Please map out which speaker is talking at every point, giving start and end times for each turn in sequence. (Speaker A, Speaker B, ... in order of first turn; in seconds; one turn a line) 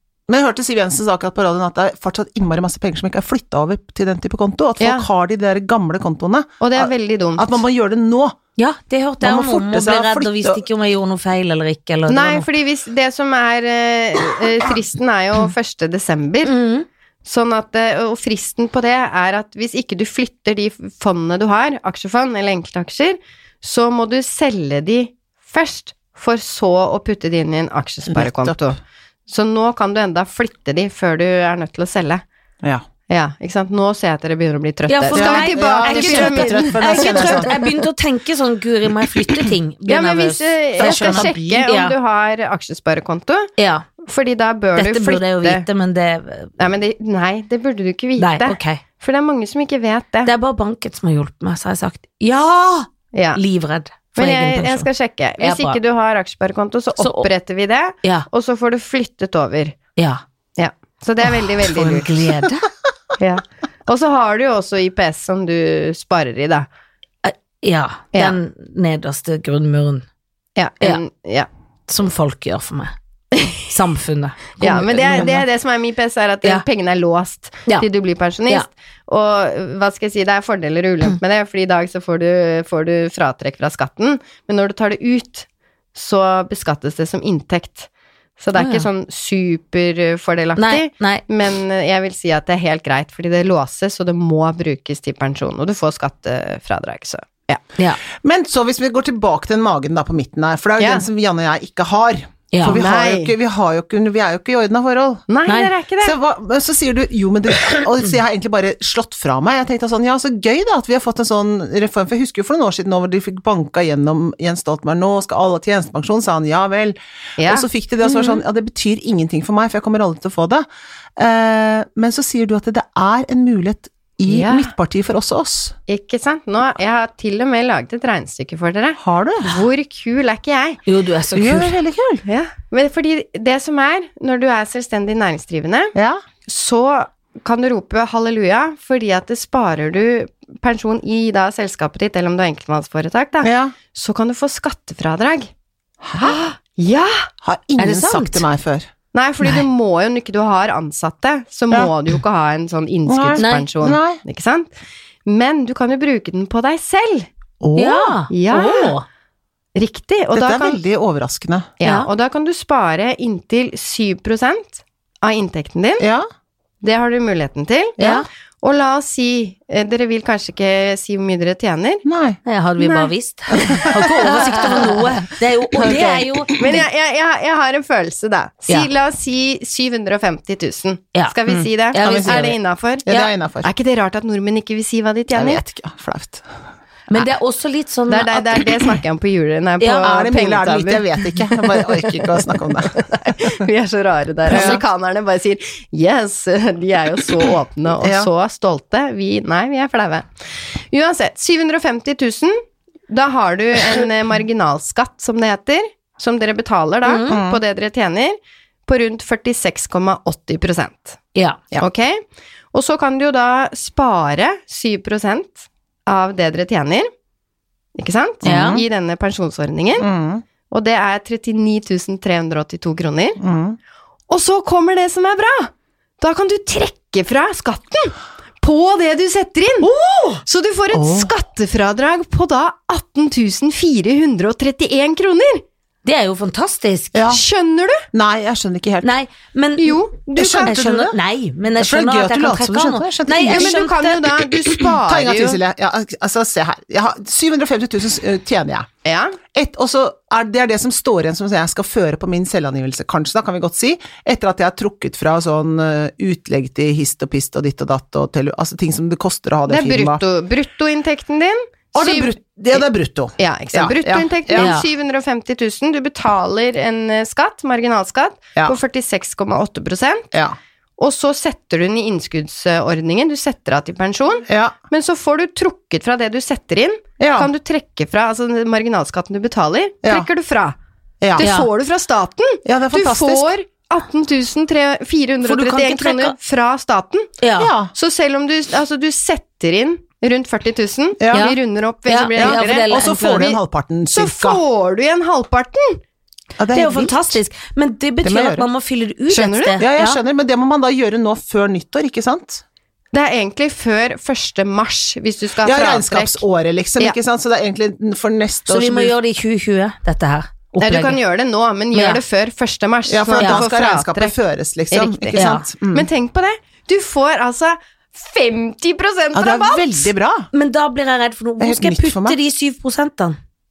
Speaker A: 0.3-8.4
Speaker B: 4.8-5.0
Speaker B: 6.6-7.6
Speaker C: 8.6-12.5
Speaker A: 9.2-10.6
Speaker B: 12.1-16.5
Speaker C: 16.4-16.9
Speaker B: 17.2-32.2
Speaker A: 28.1-28.6
Speaker B: 33.1-37.7
Speaker C: 34.9-41.9
Speaker A: 35.1-37.7
Speaker B: 39.9-45.6
Speaker A: 40.8-41.6
Speaker C: 43.6-43.9
Speaker C: 44.8-46.5
Speaker B: 46.6-50.3
Speaker C: 48.2-48.8
Speaker C: 50.2-54.9
Speaker B: 53.1-53.4
Speaker B: 54.1-59.8
Speaker C: 55.4-55.8
Speaker C: 57.0-57.3
Speaker B: 60.6-62.3
Speaker C: 61.5-62.7
Speaker B: 63.2-66.7
Speaker C: 67.2-70.0
Speaker B: 70.5-71.5
Speaker C: 71.9-72.9
Speaker C: 73.5-75.5
Speaker B: 74.6-97.6
Speaker C: 88.6-88.8
Speaker C: 90.6-91.2
Speaker A: 98.1-105.2
Speaker B: 100.8-101.0
Speaker C: 102.5-102.8
Speaker B: 102.6-103.3
Speaker B: 105.3-106.1
Speaker A: 106.0-120.7
Speaker B: 117.4-118.4
Speaker A: 121.2-125.8
Speaker B: 124.2-124.7
Speaker B: 125.9-130.8
Speaker A: 129.0-129.6
Speaker C: 130.9-131.8
Speaker A: 131.3-132.2
Speaker B: 132.2-135.9
Speaker A: 135.9-136.2
Speaker B: 136.4-145.5
Speaker A: 143.4-143.8
Speaker A: 146.0-146.4
Speaker B: 146.2-147.3
Speaker A: 147.4-148.9
Speaker C: 147.8-148.4
Speaker B: 149.1-154.7
Speaker A: 153.1-154.2
Speaker C: 153.4-153.7
Speaker B: 155.2-157.3
Speaker A: 157.6-158.2
Speaker C: 157.8-159.0
Speaker B: 158.3-158.9
Speaker B: 159.7-160.8
Speaker A: 160.3-161.7
Speaker B: 161.8-166.0
Speaker C: 161.8-162.1
Speaker A: 166.0-166.3
Speaker B: 166.8-168.0
Speaker C: 168.0-168.2
Speaker B: 168.6-172.0
Speaker A: 172.0-172.4
Speaker C: 172.4-176.7
Speaker B: 172.8-185.6
Speaker A: 181.5-182.5
Speaker C: 181.9-182.6
Speaker A: 183.1-183.7
Speaker A: 185.3-186.4
Speaker C: 187.1-188.8
Speaker B: 188.1-191.3
Speaker C: 189.8-190.1
Speaker A: 190.0-193.6
Speaker B: 193.0-211.2
Speaker A: 194.5-194.8
Speaker C: 194.5-194.8
Speaker A: 198.0-198.3
Speaker C: 207.0-207.4
Speaker A: 207.3-207.6
Speaker B: 211.8-217.1
Speaker B: 217.9-220.1
Speaker C: 218.4-218.8
Speaker A: 218.4-218.8
Speaker A: 220.0-220.4
Speaker B: 220.7-223.4
Speaker A: 223.4-223.8
Speaker B: 224.3-229.9
Speaker C: 229.8-230.4
Speaker B: 230.4-235.6
Speaker A: 230.9-231.3
Speaker C: 236.0-237.2
Speaker A: 237.1-237.4
Speaker B: 237.3-238.0
Speaker A: 238.1-239.1
Speaker C: 239.0-240.0
Speaker B: 239.8-240.8
Speaker A: 240.3-241.2
Speaker C: 240.6-244.8
Speaker A: 241.7-243.8
Speaker B: 243.3-245.6
Speaker A: 245.0-248.9
Speaker B: 249.0-249.4
Speaker A: 249.5-260.2
Speaker B: 259.7-262.8
Speaker A: 261.9-264.7
Speaker B: 263.4-270.2
Speaker C: 264.6-264.9
Speaker B: 271.0-280.8
Speaker A: 274.5-274.7
Speaker A: 277.2-277.5
Speaker A: 281.2-281.4
Speaker B: 281.3-287.3
Speaker C: 281.4-281.7
Speaker A: 282.6-283.5
Speaker C: 285.4-286.3
Speaker C: 287.4-287.7
Speaker A: 287.6-287.9
Speaker B: 287.9-293.6
Speaker A: 291.2-291.5
Speaker C: 291.3-293.5
Speaker A: 292.4-294.6
Speaker B: 294.1-296.0
Speaker A: 296.6-297.2
Speaker C: 296.7-300.2
Speaker A: 298.2-298.7
Speaker B: 299.3-299.8
Speaker A: 299.8-302.6
Speaker B: 303.1-306.4
Speaker A: 305.6-309.1
Speaker C: 308.7-311.2
Speaker B: 310.8-314.3
Speaker C: 311.9-312.2
Speaker A: 313.1-316.1
Speaker C: 313.4-313.6
Speaker B: 314.9-320.1
Speaker C: 315.3-315.6
Speaker A: 319.3-320.5
Speaker C: 320.5-323.4
Speaker A: 321.6-322.4